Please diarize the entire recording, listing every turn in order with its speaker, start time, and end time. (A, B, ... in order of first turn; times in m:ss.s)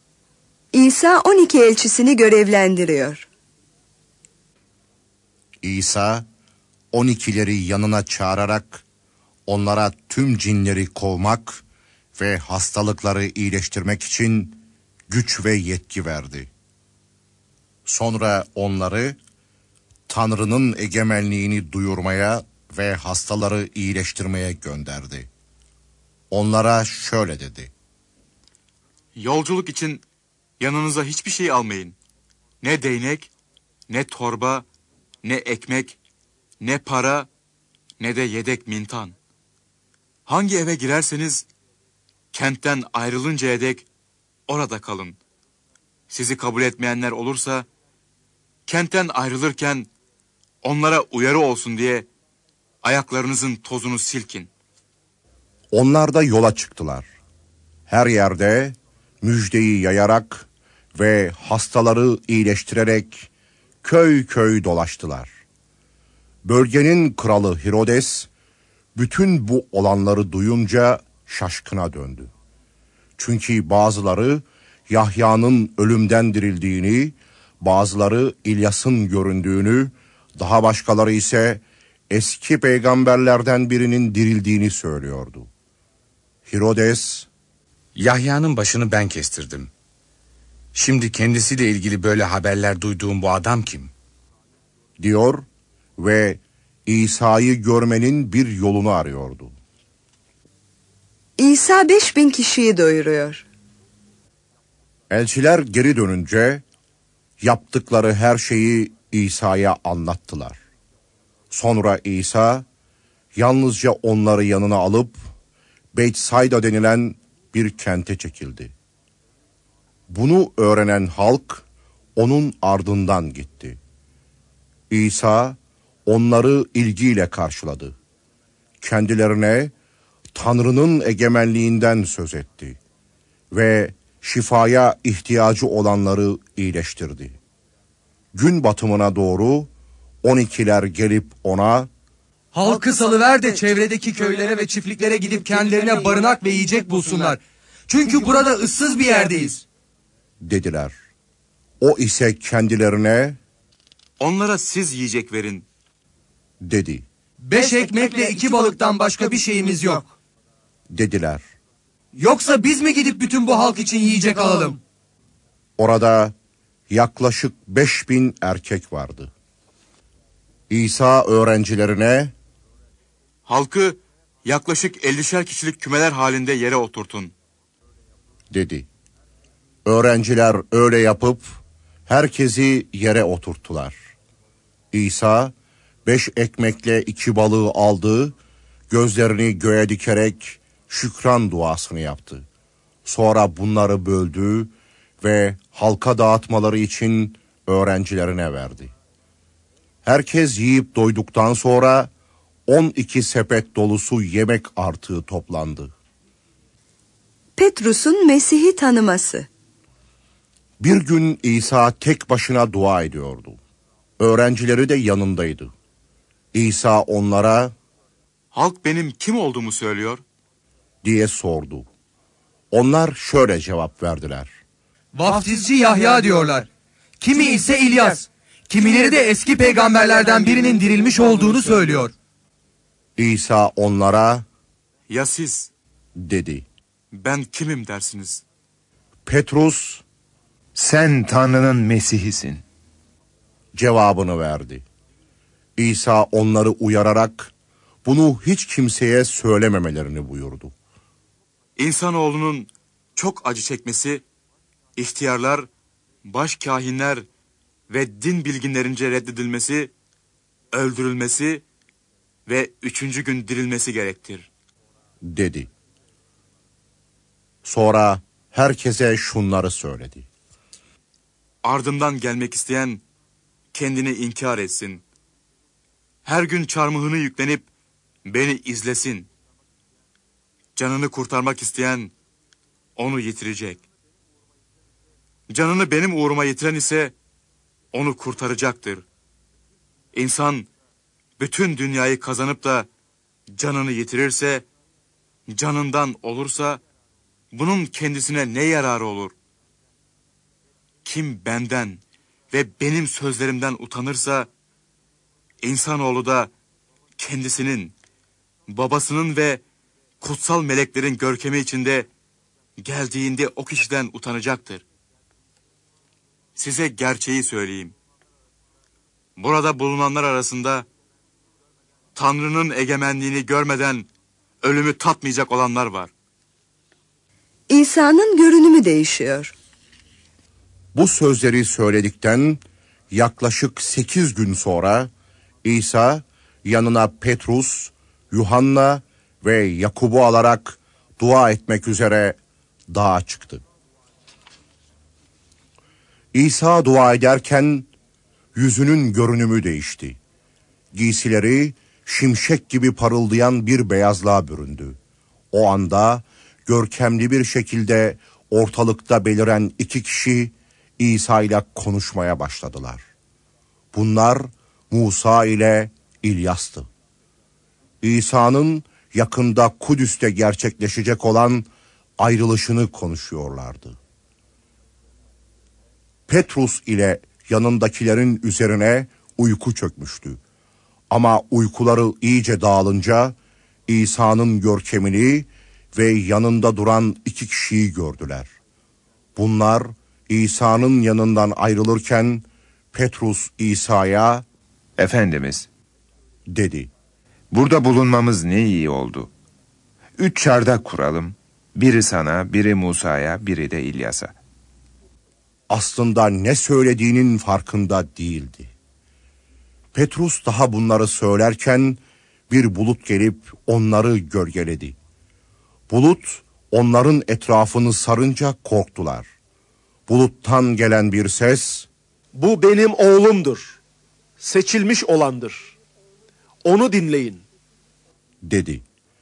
0:00.7-0:03.3 A
0:05.6-0:06.2 B
0:06.9-0:08.8 B
0:09.5-0:11.6 B
0:12.2-0:16.5 B
0:17.9-0:19.2 B
0:20.1-0:25.3 B
0:26.3-0:27.7 B
0:29.2-0:30.0 C
0:30.6-0:32.0 C
0:32.6-0:33.3 C
0:33.9-0:34.7 C
0:35.2-0:36.0 C
0:36.6-0:37.3 C
0:38.0-0:39.2 C
0:40.3-0:41.5 C
0:42.3-0:43.9 C
0:44.5-0:45.2 C
0:46.1-0:47.7 C
0:48.7-0:49.9 C
0:50.6-0:52.1 C
0:52.8-0:54.5 C
0:55.7-0:57.1 B
0:57.9-1:03.3 B
1:03.8-1:05.3 B
1:06.4-1:08.3 B
1:09.0-1:12.3 B
1:13.2-1:25.5 B
1:26.5-1:27.3 B
1:28.0-1:29.7 D
1:30.8-1:33.9 D
1:35.0-1:35.4 B
1:36.0-1:39.6 B
1:41.4-1:43.4 A
1:45.1-1:46.6 B
1:47.4-1:50.6 B
1:51.5-1:52.7 B
1:53.4-1:55.2 B
1:55.9-1:58.7 B
2:00.1-2:01.6 B
2:02.2-2:03.8 B
2:04.9-2:08.0 B
2:08.8-2:09.7 B
2:10.3-2:12.8 B
2:13.5-2:17.4 B
2:18.3-2:19.7 B
2:20.2-2:21.9 B
2:22.5-2:29.6 E
2:30.4-2:30.9 B
2:31.8-2:33.4 B
2:34.2-2:35.7 C
2:36.6-2:37.0 B
2:37.5-2:40.1 E
2:40.9-2:41.4 B
2:42.2-2:44.8 E
2:45.8-2:46.4 B
2:46.9-2:49.3 B
2:50.7-2:52.3 B
2:53.5-2:57.3 C
2:58.5-2:58.9 B
2:59.9-3:01.5 B
3:02.1-3:04.0 B
3:04.9-3:05.5 B
3:06.1-3:08.4 B
3:08.9-3:12.5 B
3:13.1-3:18.9 B
3:20.1-3:22.1 B
3:22.7-3:25.9 B
3:27.6-3:29.5 A
3:30.8-3:33.6 B
3:34.2-3:35.7 B
3:36.5-3:37.7 B
3:38.5-3:40.2 C
3:41.0-3:41.9 B
3:42.7-3:44.5 B
3:45.1-3:46.7 E
3:47.2-3:52.1 E
3:53.2-3:54.4 B
3:55.1-3:55.7 C
3:56.2-3:56.7 B
3:57.1-3:58.4 C
3:59.3-4:00.0 B
4:00.8-4:02.6 F
4:03.8-4:04.8 B
4:05.8-4:07.5 B
4:08.0-4:10.7 B
4:11.8-4:14.2 C
4:15.0-4:15.7 C
4:16.2-4:17.3 C
4:17.9-4:19.9 C
4:20.7-4:21.6 C
4:22.5-4:24.5 C
4:25.2-4:25.7 B
4:27.6-4:30.3 B
4:31.6-4:33.0 C
4:33.7-4:35.0 C
4:36.2-4:37.7 C
4:38.3-4:39.3 C
4:40.8-4:42.1 C
4:43.0-4:43.8 C
4:45.5-4:47.1 C
4:47.9-4:49.0 C
4:50.1-4:50.7 C
4:51.4-4:52.9 C
4:53.6-4:54.7 C
4:55.5-4:56.8 C
4:57.5-4:59.3 C
5:01.0-5:02.0 C
5:02.5-5:04.5 C
5:05.6-5:06.5 C
5:07.2-5:08.0 C
5:08.7-5:09.6 C
5:10.2-5:12.1 C
5:12.8-5:14.8 C
5:16.6-5:18.0 C
5:19.4-5:20.9 C
5:22.2-5:24.1 C
5:24.6-5:26.1 C
5:27.7-5:29.5 A
5:30.9-5:35.1 B
5:35.6-5:42.4 B
5:42.9-5:43.6 B
5:46.3-5:47.9 B
5:48.6-5:50.2 B
5:50.9-5:55.0 B
5:55.5-6:03.0 B
6:03.9-6:06.9 B
6:08.0-6:14.0 B
6:16.3-6:20.4 B
6:21.1-6:23.4 B
6:23.9-6:28.5 B
6:29.4-6:34.5 B
6:35.0-6:35.7 F
6:36.5-6:36.9 B
6:37.5-6:39.3 F
6:40.2-6:44.4 F
6:45.7-6:48.7 B
6:49.9-6:55.0 B
6:55.9-6:59.3 B
7:00.1-7:01.9 B
7:02.4-7:03.8 G
7:04.4-7:05.7 G
7:06.6-7:07.4 G
7:08.4-7:08.8 B